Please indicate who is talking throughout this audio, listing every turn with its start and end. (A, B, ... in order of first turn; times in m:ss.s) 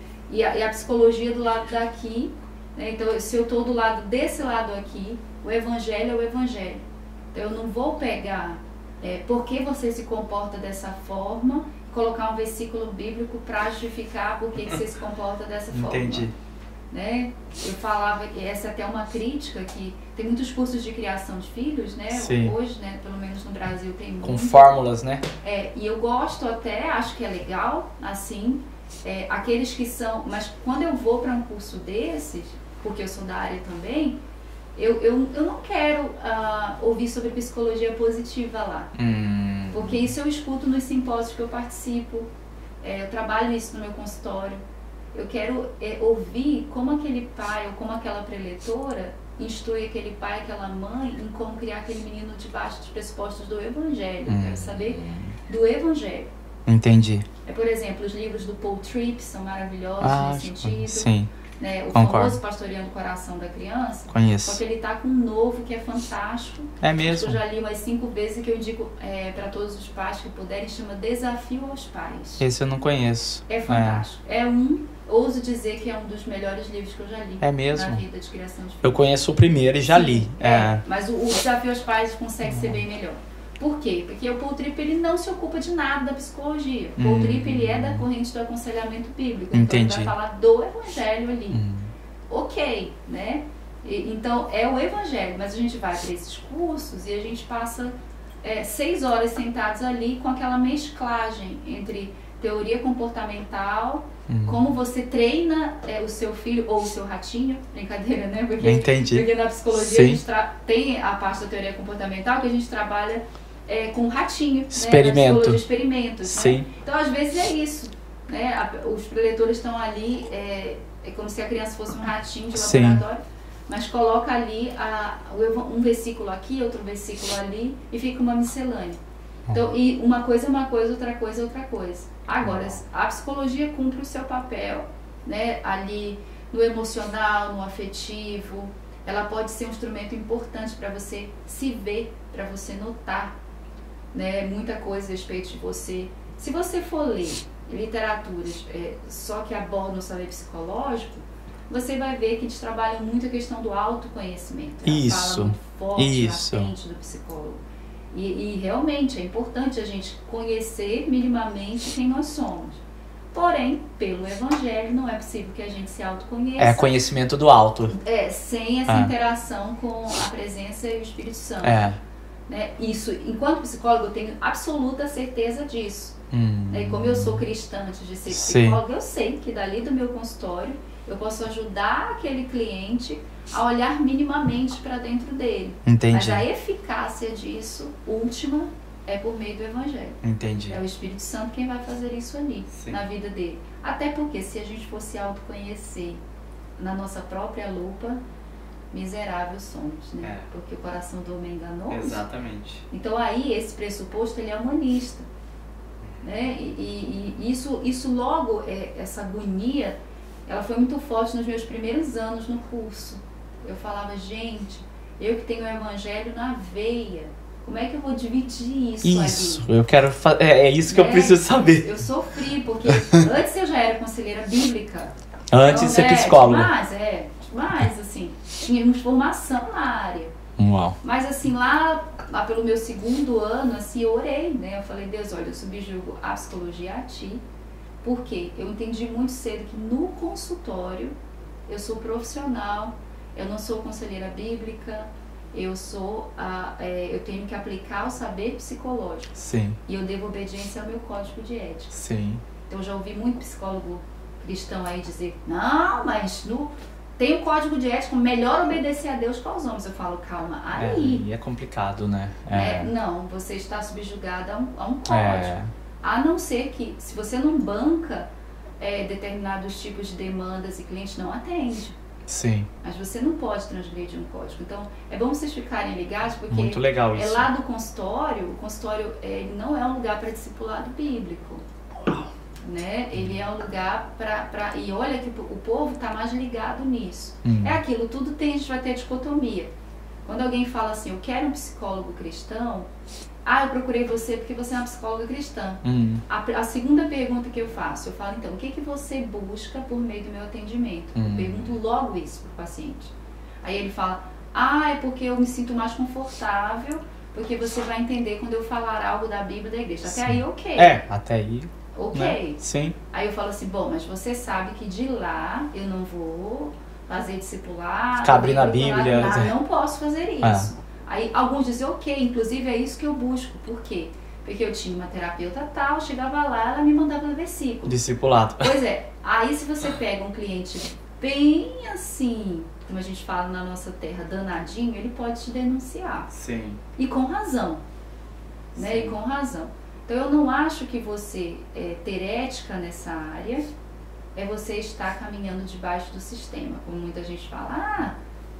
0:00.3-0:16.3 A
0:15.7-0:16.3 B
0:16.9-0:24.7 A
0:22.1-0:22.5 B
0:24.2-0:25.2 B
0:25.4-0:34.2 A
0:34.8-0:38.9 A
0:39.0-0:40.1 B
0:39.7-0:42.3 A
0:42.8-0:44.6 A
0:45.1-0:56.3 A
0:54.3-0:55.4 B
0:56.7-0:57.3 B
0:57.4-1:12.4 A
1:00.0-1:01.3 B
1:01.9-1:02.4 B
1:04.1-1:04.6 B
1:06.8-1:07.4 B
1:12.4-1:14.0 B
1:13.5-1:19.1 A
1:17.4-1:18.0 B
1:18.8-1:20.8 B
1:19.9-1:31.6 A
1:22.4-1:22.8 B
1:27.0-1:28.0 B
1:29.5-1:30.1 B
1:31.5-1:31.9 B
1:32.3-2:09.0 A
1:44.3-1:44.6 B
1:48.6-1:50.2 B
1:54.7-1:55.6 B
1:56.2-1:56.7 B
2:02.5-2:03.0 B
2:09.5-2:23.4 A
2:12.4-2:12.8 B
2:24.1-2:42.8 A
2:34.8-2:36.7 B
2:43.3-2:46.9 A
2:46.6-2:48.0 B
2:47.9-2:51.9 A
2:51.6-2:52.0 B
2:52.5-2:56.2 A
2:56.3-2:57.4 B
2:56.7-3:16.2 A
2:58.3-2:58.8 B
3:05.8-3:06.4 B
3:10.2-3:10.8 B
3:12.7-3:13.0 B
3:16.8-3:18.2 A
3:18.9-3:22.2 A
3:21.9-3:22.8 B
3:22.9-3:25.2 A
3:26.2-3:39.7 A
3:39.0-3:41.9 B
3:40.9-3:50.3 A
3:45.5-3:46.7 B
3:50.6-3:51.0 B
3:51.0-3:57.4 A
3:58.0-4:01.1 A
4:01.7-4:09.3 A
4:09.3-4:09.8 B
4:09.9-4:11.9 A
4:11.9-4:12.4 B
4:12.7-4:21.2 A
4:20.7-4:22.9 B
4:22.5-4:28.3 A
4:25.1-4:25.7 B
4:28.8-4:32.0 A
4:32.3-4:32.7 B
4:32.8-4:41.6 A
4:36.5-4:37.5 B
4:42.0-4:42.3 B
4:42.6-4:49.7 A
4:47.4-4:47.8 B
4:50.2-4:52.9 A
4:53.4-5:11.0 A
4:55.8-4:56.2 B
5:01.1-5:01.7 B
5:10.1-5:13.0 B
5:11.9-5:12.6 A
5:13.1-5:28.0 A
5:18.2-5:19.5 B
5:20.4-5:20.7 B
5:27.8-5:28.8 B
5:28.6-5:36.3 A
5:36.3-5:36.8 B
5:37.0-5:37.8 A
5:38.7-5:39.1 B
5:38.8-5:43.7 A
5:44.3-5:48.2 A